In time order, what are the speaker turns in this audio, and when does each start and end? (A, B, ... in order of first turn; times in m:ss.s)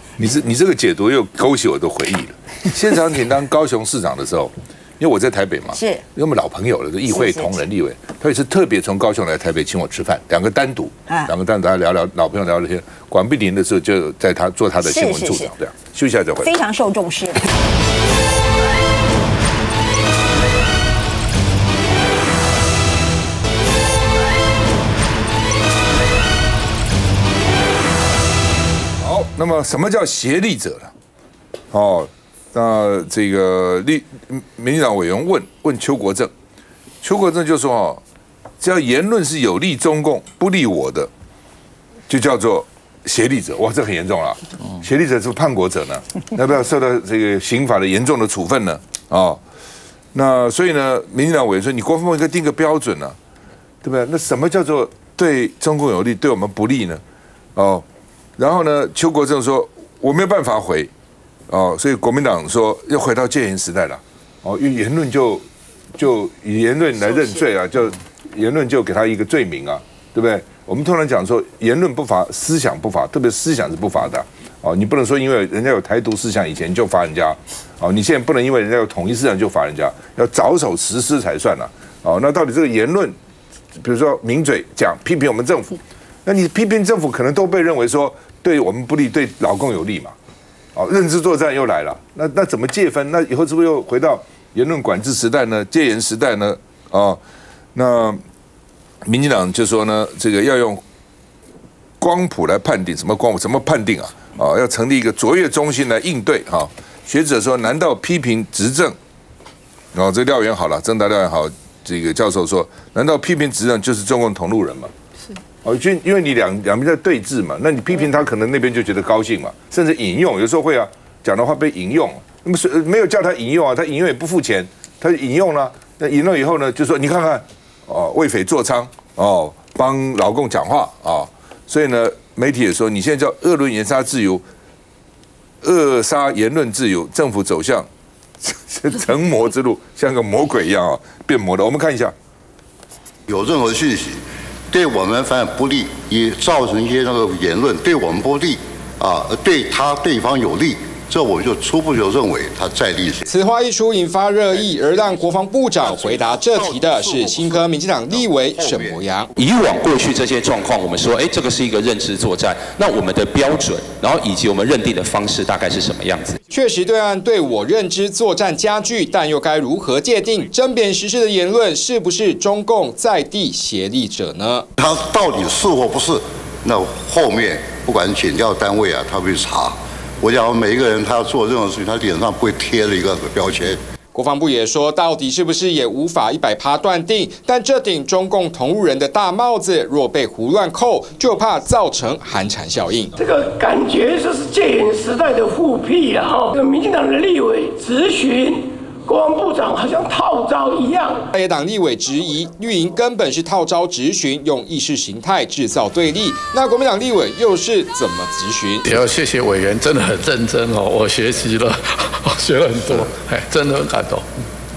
0:00.2-0:16.5 A
0:05.7-0:06.0 B
0:07.1-0:07.6 B
0:14.8-0:15.5 B
0:16.4-0:17.5 B
0:29.0-0:30.9 A
0:31.7-0:36.3 A
0:37.0-0:38.0 A
0:38.6-0:41.1 A
0:42.1-0:49.4 A
0:50.1-0:53.2 A
0:53.8-0:57.0 A
0:57.6-0:57.8 A
0:58.4-1:00.9 A
1:01.5-1:05.4 A
1:06.0-1:23.2 A
1:07.0-1:07.5 B
1:23.8-1:30.2 A
1:30.8-1:37.2 A
1:37.8-1:38.2 A
1:39.0-1:40.8 A
1:42.0-1:49.0 A
1:49.9-1:54.9 A
1:55.6-2:14.4 A
2:15.6-2:17.9 A
2:18.4-2:22.1 A
2:23.3-2:33.3 C
2:33.3-2:39.3 D
2:35.9-2:39.0 C
2:39.4-2:46.4 E
2:46.5-2:54.7 D
2:54.8-3:03.8 C
3:04.1-3:13.1 D
3:13.2-3:21.3 F
3:21.4-3:29.0 D
3:28.8-3:34.3 G